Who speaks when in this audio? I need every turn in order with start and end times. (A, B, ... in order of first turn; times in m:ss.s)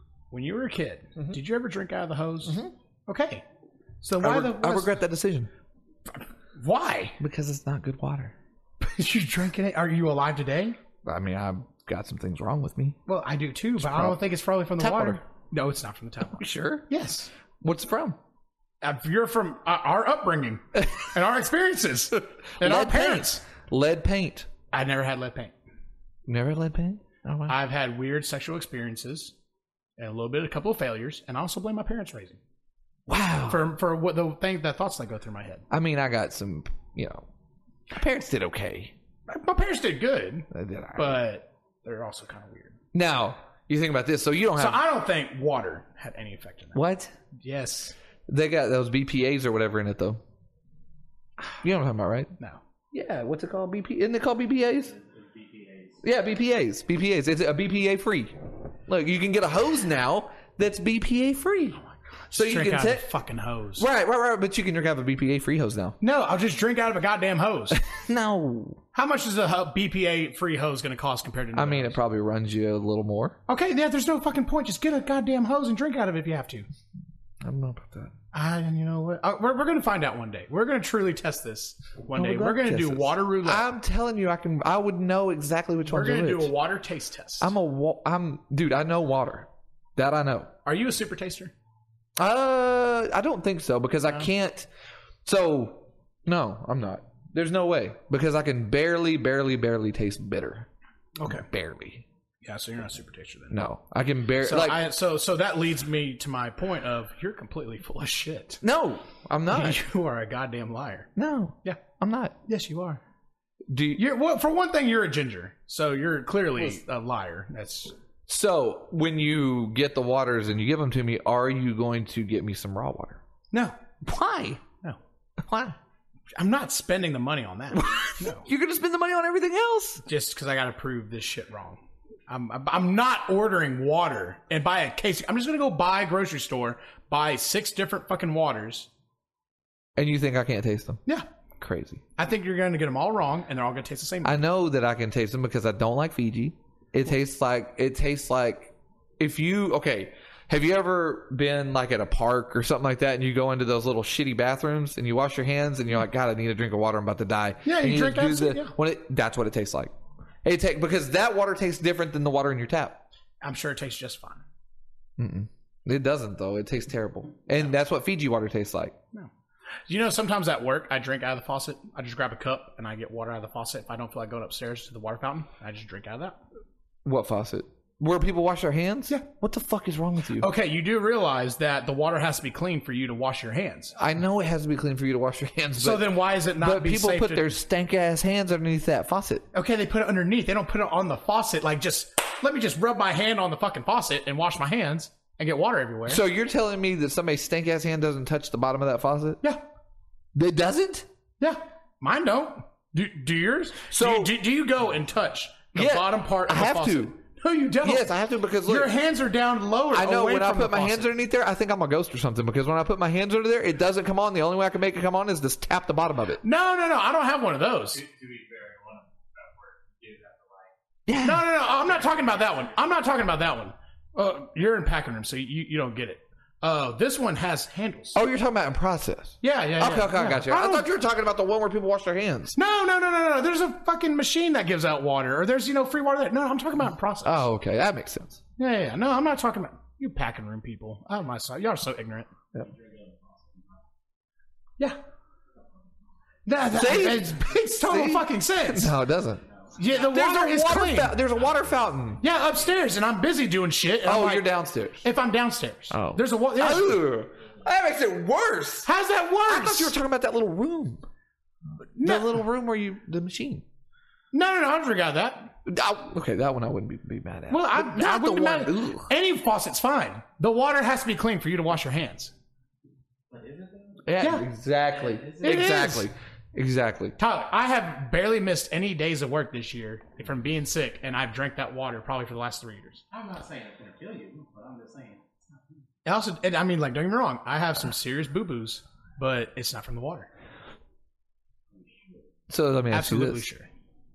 0:00.3-0:03.4 A
0:02.4-0:02.7 B
0:04.0-0:04.9 A
0:04.2-0:05.5 B
0:06.6-0:07.2 A
0:07.2-0:08.3 B
0:08.8-0:10.8 A
0:11.0-0:13.0 B
0:13.1-0:17.3 A
0:13.8-0:14.2 B
0:14.8-0:15.2 B
0:16.3-0:16.8 B
0:17.6-0:18.2 B
0:18.8-0:23.4 A
0:22.6-0:24.5 B
0:24.7-0:25.5 A
0:26.2-0:27.6 B
0:27.5-0:29.3 A
0:30.0-0:32.4 A
0:33.1-0:33.6 B
0:33.5-0:35.6 A
0:35.7-0:37.2 B
0:37.9-0:38.9 B
0:39.3-0:42.8 A
0:40.5-0:41.2 B
0:42.9-0:44.8 B
0:44.6-0:46.8 A
0:46.7-0:47.1 B
0:47.4-0:48.0 A
0:48.3-0:50.2 B
0:51.6-0:52.3 B
0:52.9-0:54.9 B
0:54.8-0:56.0 C
0:56.0-1:01.8 B
1:02.3-1:03.9 A
1:02.3-1:03.1 B
1:03.8-1:06.0 B
1:06.0-1:07.8 A
1:07.7-1:08.8 B
1:08.9-1:12.0 A
1:11.5-1:13.4 B
1:13.5-1:16.7 A
1:17.4-1:18.1 B
1:18.3-1:23.8 A
1:22.1-1:26.5 B
1:25.9-1:27.5 A
1:27.4-1:30.5 B
1:30.6-1:31.5 A
1:32.2-1:34.7 B
1:35.2-1:40.7 B
1:41.2-1:41.5 A
1:41.2-1:42.0 B
1:42.4-1:43.7 A
1:43.5-1:44.8 B
1:44.4-1:48.6 A
1:48.6-1:49.8 B
1:49.5-1:51.1 A
1:51.2-1:52.3 B
1:52.5-1:53.0 A
1:53.7-1:54.0 B
1:53.9-1:57.9 A
1:58.3-2:03.2 B
2:04.0-2:04.6 B
2:05.4-2:05.8 B
2:06.4-2:08.4 A
2:07.7-2:10.0 B
2:10.0-2:18.9 A
2:20.0-2:21.0 B
2:21.6-2:22.0 B
2:22.2-2:24.4 A
2:24.2-2:39.9 B
2:37.6-2:38.7 A
2:40.4-2:43.0 B
2:43.4-2:44.4 A
2:45.2-2:49.0 B
2:49.9-2:56.4 A
2:57.0-3:00.5 B
3:00.4-3:04.0 A
3:04.0-3:09.4 B
3:05.8-3:07.5 A
3:09.5-3:16.2 A
3:16.1-3:19.4 B
3:20.3-3:21.1 B
3:21.4-3:28.1 A
3:23.9-3:24.3 B
3:25.7-3:27.2 B
3:27.8-3:28.9 B
3:28.6-3:31.1 A
3:29.9-3:36.4 B
3:36.4-3:38.0 A
3:37.9-3:40.7 C
3:41.1-3:41.5 B
3:41.2-3:48.2 A
3:41.7-3:43.4 C
3:48.1-3:52.5 B
3:49.4-3:50.9 A
3:52.5-3:57.5 A
3:57.2-3:58.4 B
3:58.6-4:02.3 A
4:02.5-4:03.8 C
4:06.4-4:08.9 A
4:06.7-4:09.4 B
4:09.4-4:10.0 C
4:09.8-4:11.2 A
4:10.0-4:12.2 B
4:11.3-4:12.8 C
4:12.2-4:14.5 A
4:14.0-4:15.0 B
4:15.0-4:17.0 A
4:15.9-4:18.9 B
4:18.8-4:19.9 A
4:19.5-4:21.0 B
4:21.9-4:22.4 A
4:22.0-4:23.6 B
4:24.3-4:25.5 A
4:25.6-4:29.1 B
4:27.5-4:32.3 A
4:33.3-4:34.2 C
4:34.0-4:37.2 B
4:34.2-4:34.4 A
4:34.8-4:35.8 C
4:35.4-4:36.1 A
4:37.2-4:43.0 A
4:43.1-4:45.8 C
4:46.0-4:50.3 A
4:51.8-4:52.1 C
4:52.5-4:53.4 B
4:52.9-4:53.7 A